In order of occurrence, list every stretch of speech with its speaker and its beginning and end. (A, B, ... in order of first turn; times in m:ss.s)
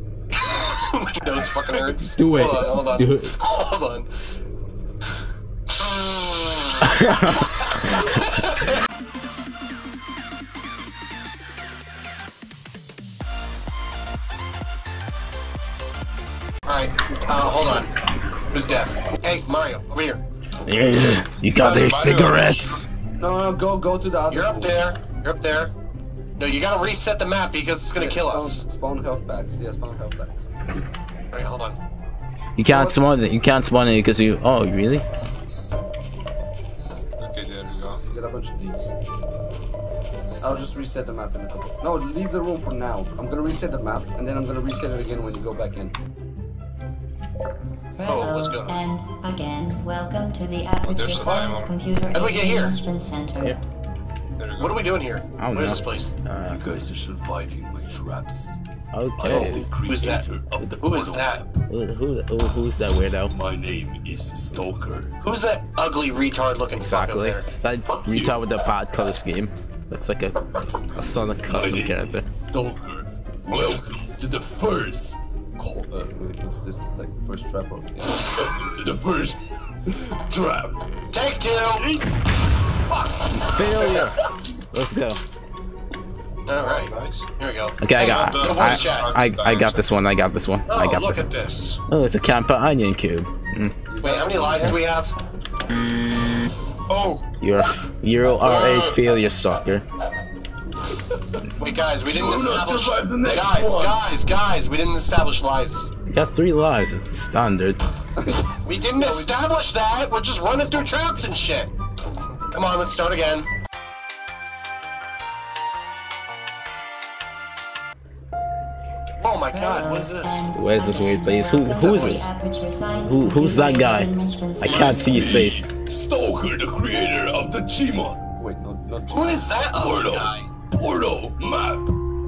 0:00.5-0:04.1 A
0:02.1-0:03.4 B
0:05.7-0:08.7 A
0:06.8-0:07.4 B
0:16.7-0:17.9 A
0:18.5-0:20.2 A
0:20.7-0:22.9 B
0:21.5-0:22.9 C
0:21.6-0:22.3 A
0:23.2-0:24.8 D
0:24.3-0:25.7 A
0:26.4-0:28.6 A
0:28.0-0:30.5 D
0:31.3-0:31.8 A
0:32.6-0:35.0 B
0:32.7-0:33.1 D
0:37.2-0:38.0 C
0:38.0-0:38.9 D
0:40.4-0:46.0 D
0:48.0-0:48.8 A
0:48.1-0:53.6 E
0:50.8-0:51.8 C
0:51.2-0:51.5 A
0:52.1-0:52.9 A
0:54.4-0:55.0 C
0:54.6-0:56.1 A
0:55.4-0:56.6 B
0:56.5-0:58.6 D
0:58.9-0:59.7 B
0:59.2-1:01.6 D
0:59.3-1:01.4 A
1:01.7-1:03.4 B
1:03.3-1:05.1 D
1:05.2-1:07.5 A
1:06.8-1:12.3 B
1:07.8-1:08.4 D
1:11.4-1:20.8 D
1:21.1-1:21.9 A
1:22.9-1:24.1 D
1:23.3-1:24.2 B
1:24.7-1:25.2 B
1:26.5-1:29.1 A
1:26.6-1:27.3 C
1:27.8-1:31.3 B
1:28.0-1:29.9 C
1:30.7-1:31.8 A
1:31.9-1:33.8 B
1:33.9-1:34.8 D
1:34.0-1:35.2 A
1:36.9-1:37.3 C
1:37.4-1:39.8 B
1:41.1-1:41.4 D
1:41.6-1:45.9 A
1:42.1-1:44.0 D
1:46.1-1:47.8 B
1:48.2-1:49.4 D
1:48.6-1:51.7 A
1:52.5-1:53.5 A
1:59.2-2:00.5 A
1:59.6-2:05.2 E
2:00.5-2:02.3 B
2:03.0-2:05.7 B
2:04.6-2:11.9 D
2:09.1-2:10.5 A